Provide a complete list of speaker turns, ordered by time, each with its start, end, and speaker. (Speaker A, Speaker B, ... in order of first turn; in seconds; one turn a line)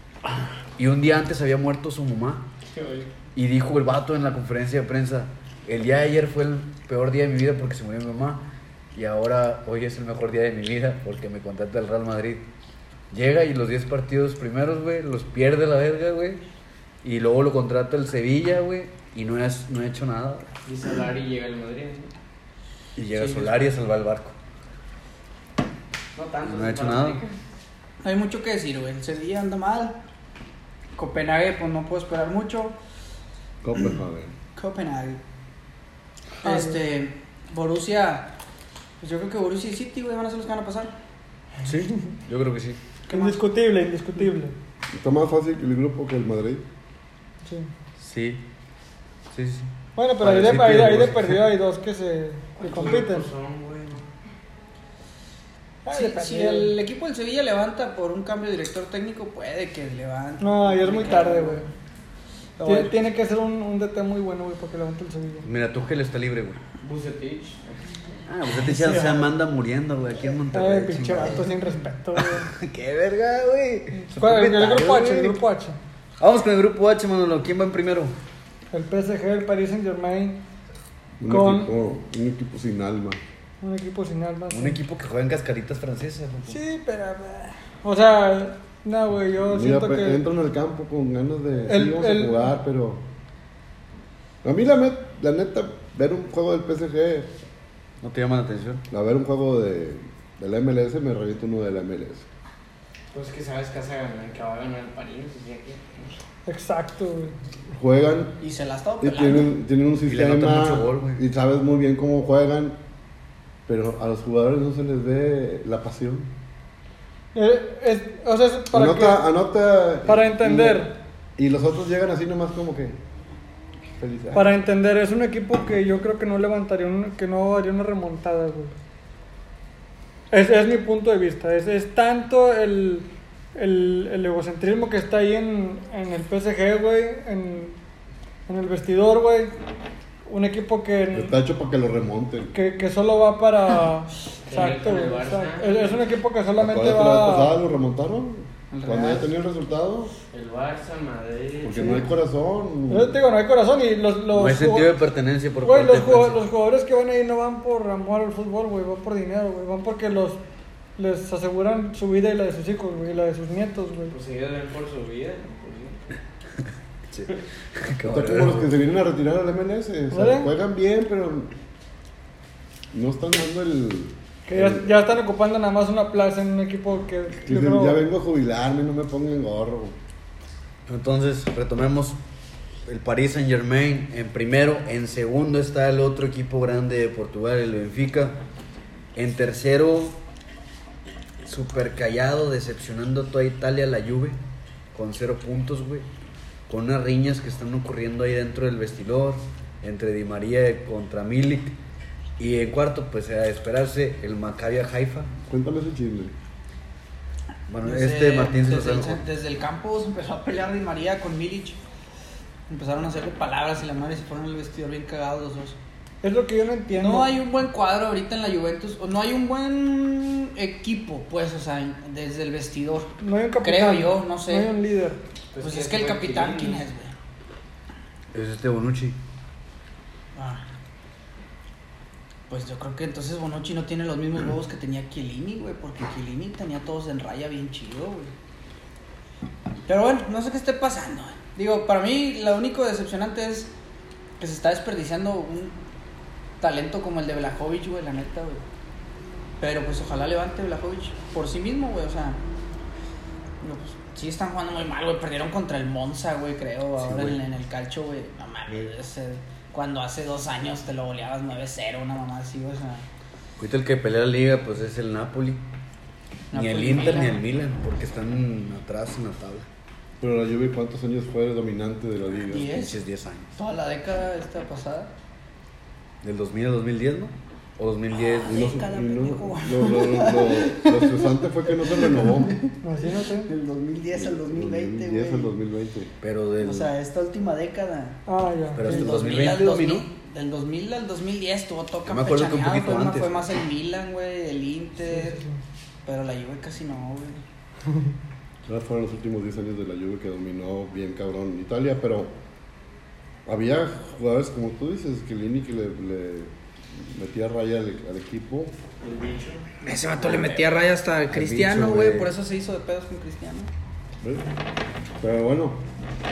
Speaker A: 0.8-2.5
Speaker B: 2.7-3.1
Speaker A: 3.4-12.4
Speaker A: 13.1-16.4
Speaker A: 17.0-20.5
Speaker B: 20.6-22.1
Speaker A: 23.0-24.3
Speaker B: 23.2-23.5
Speaker B: 26.1-27.4
Speaker A: 26.4-27.2
Speaker C: 28.0-30.0
Speaker C: 31.0-32.8
Speaker D: 33.6-34.3
Speaker C: 34.5-35.2
Speaker C: 36.4-38.3
Speaker E: 36.4-36.8
Speaker C: 39.0-40.9
Speaker A: 41.6-42.8
Speaker E: 43.1-44.5
Speaker C: 43.1-43.4
Speaker D: 44.9-46.6
Speaker E: 47.4-47.7
Speaker A: 48.0-48.5
Speaker A: 49.3-51.5
Speaker E: 50.0-53.3
Speaker B: 52.6-54.1
Speaker E: 55.9-56.8
Speaker C: 55.9-61.6
Speaker E: 60.4-61.7
Speaker C: 62.6-62.9
Speaker E: 62.6-65.5
Speaker A: 65.4-66.6
Speaker B: 66.8-68.0
Speaker A: 68.3-71.6
Speaker E: 68.6-69.3
Speaker E: 70.5-72.5
Speaker A: 72.2-75.4
Speaker E: 74.0-75.8
Speaker A: 76.2-78.1
Speaker E: 78.7-80.4
Speaker D: 81.2-83.2
Speaker E: 81.3-81.7
Speaker E: 83.6-84.8
Speaker A: 84.5-86.6
Speaker E: 86.5-90.2
Speaker D: 89.4-93.0
Speaker E: 91.7-92.5
Speaker D: 94.4-97.3
Speaker A: 98.0-98.8
Speaker D: 98.9-102.3
Speaker B: 103.1-105.9
Speaker E: 106.5-107.3
Speaker D: 107.7-108.4
Speaker C: 108.4-109.5
Speaker D: 109.0-112.8
Speaker A: 110.0-111.2
Speaker D: 113.7-116.3
Speaker E: 117.3-119.2
Speaker D: 118.7-123.0
Speaker E: 120.1-120.9
Speaker D: 123.9-124.6
Speaker E: 124.3-128.7
Speaker E: 130.3-137.8
Speaker E: 138.5-139.5
Speaker E: 140.3-141.4
Speaker D: 141.1-142.6
Speaker E: 142.5-147.6
Speaker B: 144.5-146.0
Speaker D: 146.6-150.1
Speaker C: 148.7-149.3
Speaker B: 150.3-152.0
Speaker D: 151.6-153.2
Speaker E: 152.9-154.9
Speaker A: 154.3-156.4
Speaker E: 155.6-160.4
Speaker E: 161.0-164.1
Speaker B: 164.1-166.0
Speaker A: 167.1-168.7
Speaker D: 168.1-171.5
Speaker E: 170.1-170.5
Speaker D: 172.9-175.1
Speaker E: 174.5-178.0
Speaker D: 177.4-180.0
Speaker A: 180.9-182.2
Speaker A: 182.9-188.4
Speaker A: 189.2-190.2
Speaker A: 191.4-194.4
Speaker A: 194.9-196.1
Speaker A: 196.7-201.8
Speaker A: 202.4-205.3
Speaker D: 205.5-206.3
Speaker A: 207.7-209.2
Speaker C: 207.8-211.8
Speaker C: 212.7-215.8
Speaker E: 216.2-217.3
Speaker C: 216.9-224.7
Speaker E: 223.2-225.2
Speaker B: 225.5-226.8
Speaker C: 225.6-227.2
Speaker A: 228.3-229.2
Speaker C: 230.3-230.6
Speaker C: 232.5-238.3
Speaker C: 239.9-243.7
Speaker C: 244.4-245.8
Speaker C: 246.6-248.6
Speaker C: 249.6-252.4
Speaker C: 253.6-263.1
Speaker A: 257.0-257.4
Speaker A: 263.6-265.6
Speaker C: 266.5-267.4
Speaker A: 266.5-269.7
Speaker D: 270.2-272.7
Speaker C: 272.5-273.0
Speaker A: 272.7-273.5
Speaker C: 273.6-275.1
Speaker A: 276.2-278.6
Speaker C: 278.1-281.0
Speaker D: 278.5-282.6
Speaker C: 281.9-282.8
Speaker E: 282.8-283.5
Speaker C: 283.3-285.5
Speaker D: 284.1-286.1
Speaker A: 286.2-286.9
Speaker C: 286.6-295.4
Speaker E: 288.3-289.1
Speaker A: 288.8-290.1
Speaker A: 292.1-293.6
Speaker E: 295.1-295.5
Speaker C: 296.1-297.4
Speaker D: 298.7-302.3
Speaker D: 303.5-308.7
Speaker B: 309.0-309.8
Speaker C: 309.8-313.7
Speaker A: 310.2-310.6
Speaker A: 311.3-312.3
Speaker D: 314.2-314.5
Speaker D: 315.2-315.8